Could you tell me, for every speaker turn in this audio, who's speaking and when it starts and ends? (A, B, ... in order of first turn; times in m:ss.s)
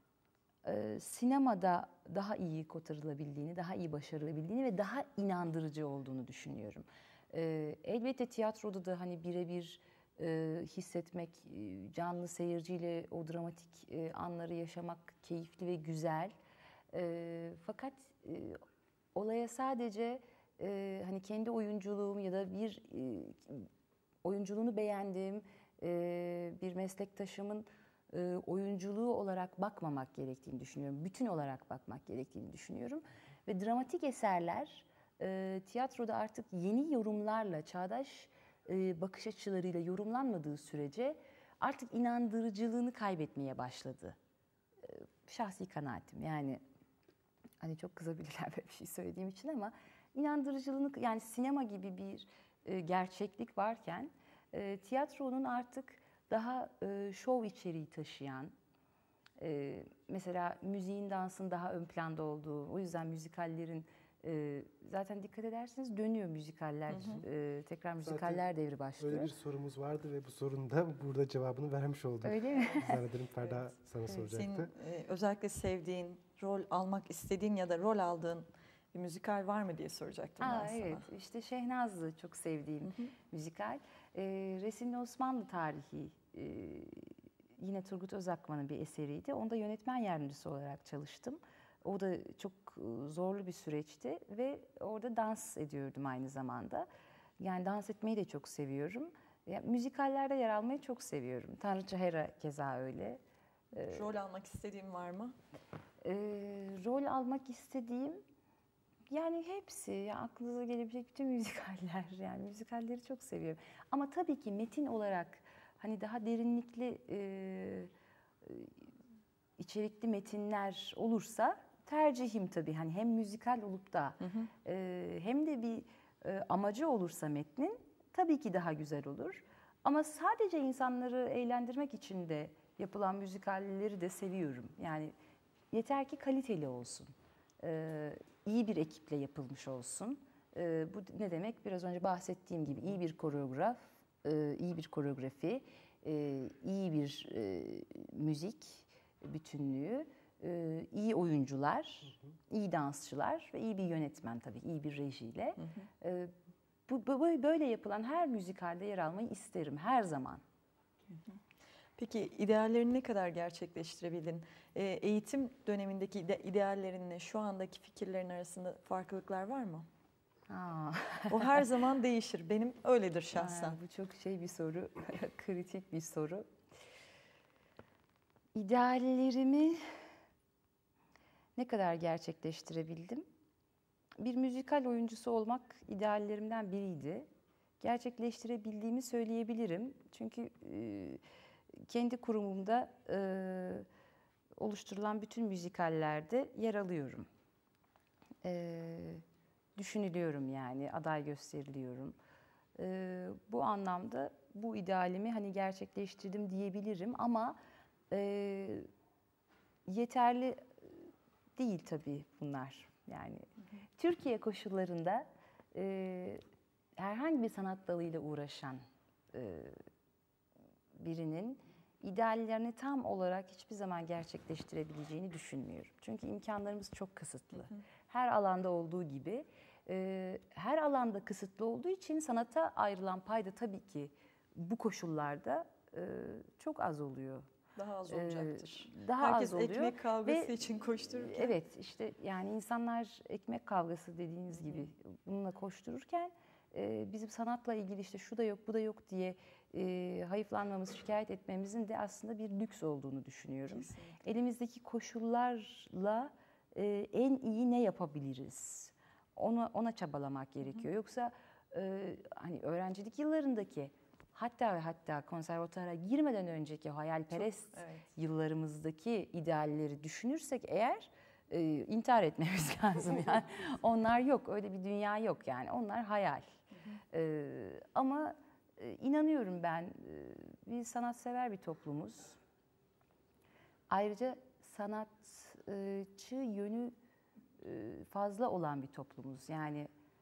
0:00.6-0:16.3 A
0:16.9-0:18.6 A
0:19.1-0:23.7 A
0:24.2-0:44.2 A
0:44.8-0:46.6 A
0:47.6-0:58.5 A
0:59.4-1:09.3 A
1:06.9-1:07.2 B
1:08.0-1:08.4 C
1:09.0-1:14.7 C
1:12.2-1:13.0 A
1:13.4-1:21.1 B
1:20.4-1:36.9 A
1:37.4-1:43.2 A
1:43.7-1:44.1 A
1:43.8-1:45.4 B
1:46.0-1:48.2 A
1:49.1-1:57.9 A
1:58.4-1:58.8 A
1:59.6-2:15.1 A
2:04.2-2:04.5 B
2:15.7-2:36.3 A
2:35.6-2:35.8 B
2:36.9-2:40.4 A
2:41.1-2:41.4 B
2:42.0-2:49.8 B
2:50.5-2:51.6 A
2:51.3-2:53.8 B
2:53.3-2:56.4 A
2:58.5-2:59.8 A
3:01.6-3:03.2 A
3:04.2-3:07.3 A
3:07.8-3:11.2 A
3:11.8-3:13.9 A
3:14.6-3:17.3 A
3:18.4-3:19.2 A
3:19.8-3:22.2 A
3:22.8-3:27.6 A
3:28.1-3:28.9 A
3:29.8-3:36.4 A
3:37.0-3:39.8 A
3:40.9-3:57.5 A
3:57.8-4:01.6 B
3:58.1-4:36.4 A
4:04.5-4:04.8 B
4:13.7-4:14.2 B
4:27.3-4:28.1 B
4:37.1-4:42.4 A
4:43.9-4:47.0 A
4:47.6-4:49.9 A